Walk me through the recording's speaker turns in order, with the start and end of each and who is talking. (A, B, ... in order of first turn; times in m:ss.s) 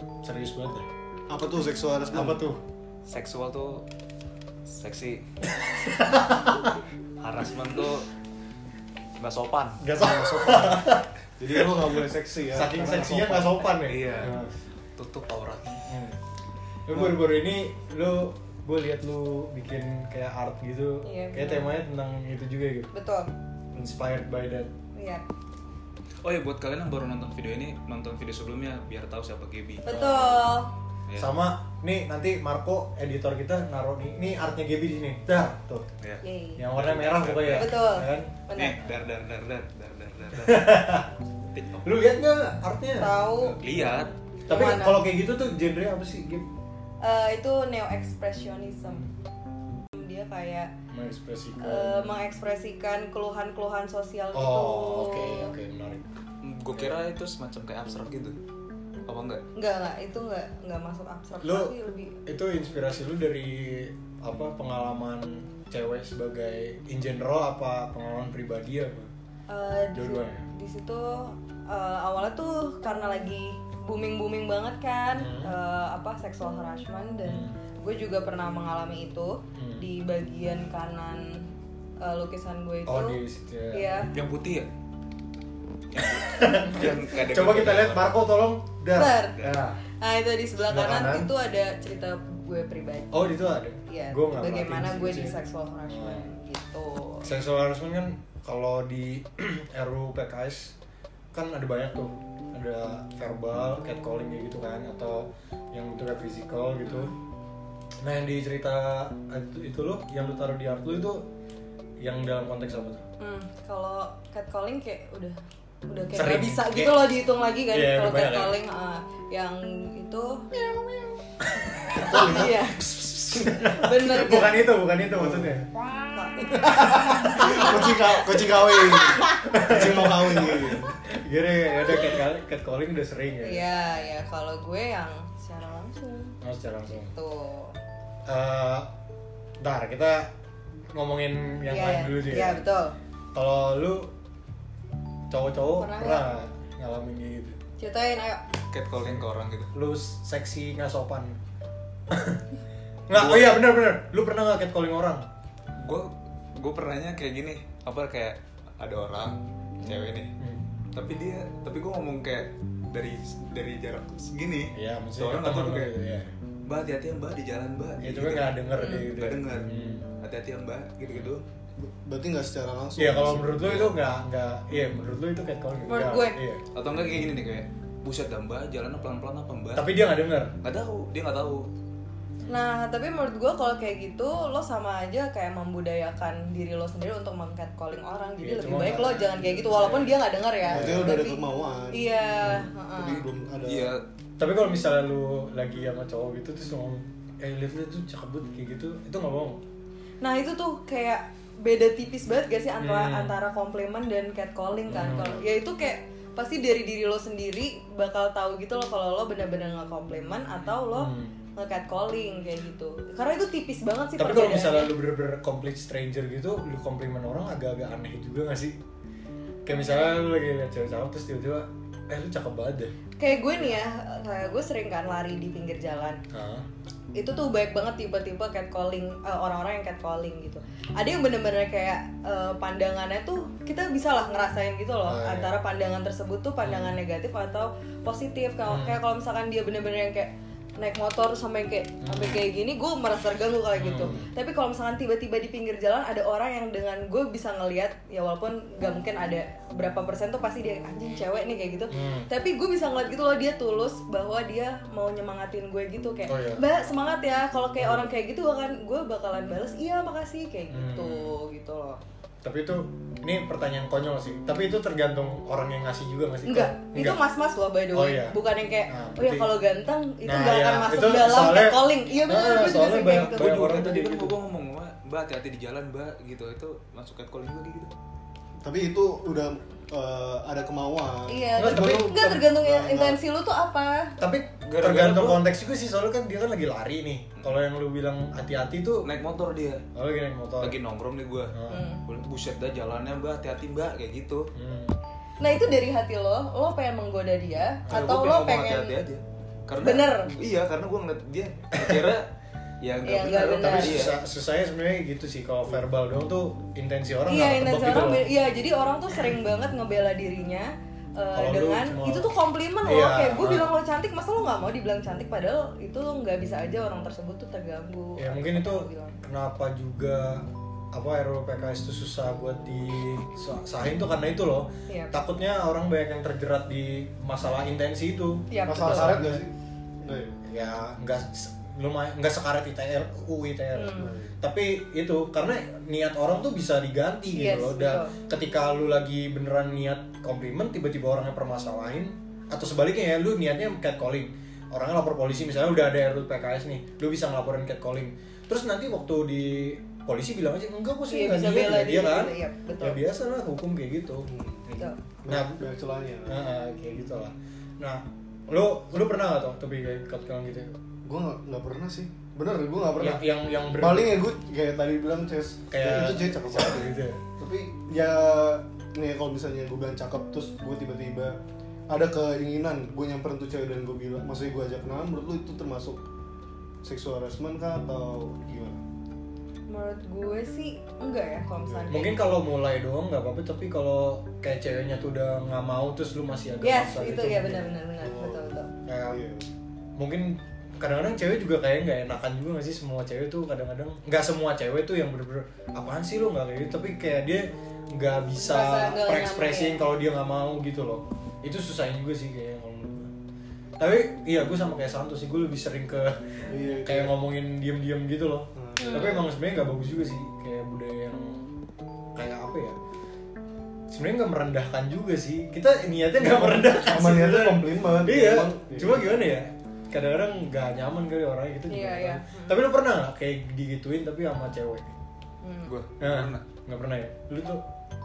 0:00.2-0:00.9 A
0:01.3-0:02.4 B
0:02.1-0:02.6 A
0:03.1-0:03.8 C
0:04.6-0:05.2 C
0:05.5-0:06.8 A
0:07.2-0:08.1 C
0:09.2-0:10.7 C
0:09.8-0:11.1 A
0:11.4-0:13.6 B
0:12.5-0:14.5 A
0:13.8-0:14.4 C
0:14.9-0:15.8 C
0:15.9-0:16.2 A
0:16.8-0:22.9 A
0:21.0-0:21.7 D
0:22.9-0:23.3 D
0:23.7-0:24.7 A
0:24.9-0:25.2 D
0:26.2-0:29.9 C
0:29.8-0:30.7 D
0:29.9-0:30.5 A
0:31.2-0:35.9 A
0:36.2-0:36.6 D
0:36.6-0:38.3 A
0:36.7-0:37.8 C
0:37.5-0:38.8 D
0:38.5-0:40.7 C
0:40.4-0:41.1 A
0:41.5-0:42.0 C
0:41.8-0:43.1 A
0:43.0-0:43.6 D
0:43.4-0:44.1 C
0:44.5-0:46.4 A
0:44.5-0:45.0 D
0:47.0-0:49.1 D
0:49.9-0:50.7 D
0:50.9-0:52.1 A
0:51.6-0:55.5 D
0:54.3-0:56.0 A
0:56.4-0:58.4 C
0:59.1-0:59.4 C
0:59.5-1:02.2 D
1:01.4-1:01.7 A
1:02.2-1:09.1 A
1:09.5-1:21.5 D
1:09.9-1:10.5 A
1:15.2-1:15.5 A
1:17.2-1:17.5 A
1:19.5-1:19.8 A
1:22.0-1:23.2 D
1:22.8-1:24.0 A
1:23.7-1:24.1 D
1:24.1-1:24.7 C
1:25.9-1:28.1 C
1:26.2-1:29.8 A
1:28.9-1:29.4 D
1:30.0-1:33.2 D
1:30.7-1:31.3 A
1:33.1-1:36.3 A
1:33.9-1:37.2 D
1:37.2-1:40.7 A
1:41.3-1:47.1 A
1:46.8-1:47.1 D
1:48.0-1:51.2 A
1:52.0-1:53.0 A
1:53.2-2:00.5 D
1:56.1-1:57.1 A
1:57.7-1:58.6 A
2:01.4-2:05.7 A
2:02.0-2:02.5 B
2:02.1-2:04.6 D
2:05.1-2:05.6 B
2:06.1-2:09.6 D
2:06.4-2:07.8 A
2:06.6-2:11.0 B
2:09.4-2:13.6 A
2:13.4-2:16.3 D
2:16.4-2:17.1 A
2:16.9-2:17.8 D
2:18.2-2:18.9 A
2:19.6-2:20.3 A
2:20.9-2:22.6 A
2:21.7-2:22.9 D
2:23.3-2:24.1 A
2:25.3-2:27.6 A
2:25.8-2:26.3 D
2:27.8-2:28.4 D
2:28.7-2:29.7 C
2:29.0-2:31.4 A
2:32.1-2:32.4 A
2:33.1-2:35.2 A
2:33.1-2:33.6 C
2:35.8-2:40.3 C
2:40.4-2:40.6 A
2:40.9-2:45.9 C
2:44.7-2:46.3 A
2:46.7-2:48.6 C
2:48.0-2:50.1 A
2:48.8-2:49.1 D
2:49.1-2:51.4 C
2:51.0-2:51.3 A
2:51.8-2:53.9 B
2:53.0-2:56.6 A
2:55.9-2:56.4 D
2:56.7-2:59.9 C
2:59.8-3:00.5 A
3:00.6-3:01.7 C
3:02.5-3:13.2 D
3:08.4-3:10.1 A
3:08.7-3:09.2 B
3:10.6-3:12.0 B
3:10.7-3:11.1 A
3:12.4-3:12.7 A
3:12.9-3:13.9 B
3:13.6-3:14.0 C
3:14.4-3:19.6 A
3:20.2-3:34.9 D
3:22.8-3:23.4 A
3:24.9-3:25.5 A
3:30.9-3:31.4 A
3:34.2-3:38.8 A
3:39.6-3:42.9 A
3:43.2-3:46.2 D
3:46.3-3:46.7 A
3:47.1-4:22.0 D
3:55.1-3:55.5 A
3:56.6-3:57.0 A
3:58.7-3:59.0 A
4:02.0-4:02.4 A
4:03.7-4:04.3 A
4:11.9-4:12.3 A
4:16.3-4:16.6 A
4:17.8-4:18.1 A
4:20.7-4:21.4 A
4:22.4-4:27.2 A
4:26.4-4:33.6 D
4:27.9-4:29.5 A
4:30.2-4:34.4 A
4:33.0-4:37.9 C
4:38.6-4:43.2 B
4:41.3-4:44.2 D
4:41.6-4:42.2 A
4:44.2-4:49.1 A
4:44.6-4:45.4 C
4:49.0-4:49.8 C
4:49.9-4:50.8 A
4:50.6-4:51.5 C
4:51.5-4:51.8 A
4:51.7-4:52.0 D
4:52.0-4:54.5 C
4:54.5-4:55.0 A
4:55.4-4:59.0 D
4:57.9-5:02.3 C
4:59.8-5:00.3 D
5:01.7-5:02.1 A
5:02.8-5:04.2 C
5:03.0-5:04.0 D
5:03.5-5:08.2 A
5:07.3-5:19.2 D
5:11.3-5:12.3 A
5:12.8-5:13.7 A
5:18.2-5:29.4 A
5:24.9-5:25.2 D
5:28.5-5:29.2 D
5:28.7-5:30.4 B
5:30.4-5:55.6 A
5:33.7-5:34.1 D
5:34.0-5:34.4 B
5:37.3-5:38.1 D
5:51.1-5:53.0 D
5:54.2-5:54.6 B
5:55.2-5:56.4 B
5:56.2-6:00.7 A
6:01.0-6:11.4 B
6:03.0-6:04.2 A
6:05.7-6:07.2 A
6:11.9-6:16.0 B
6:16.8-6:18.8 B
6:19.7-6:22.3 D
6:21.6-6:22.0 B
6:21.9-6:27.7 A
6:26.6-6:28.7 D
6:28.0-6:29.5 B
6:28.8-6:29.2 A
6:30.0-6:43.1 A
6:38.4-6:39.8 D
6:43.8-6:51.5 A
6:46.4-6:47.2 B
6:48.5-6:49.1 B
6:48.8-6:49.3 D
6:52.1-6:52.8 A
6:53.9-7:04.9 A
6:56.2-6:59.3 B
7:01.7-7:02.6 D
7:05.4-7:05.7 D
7:05.6-7:06.4 C
7:06.0-7:07.6 A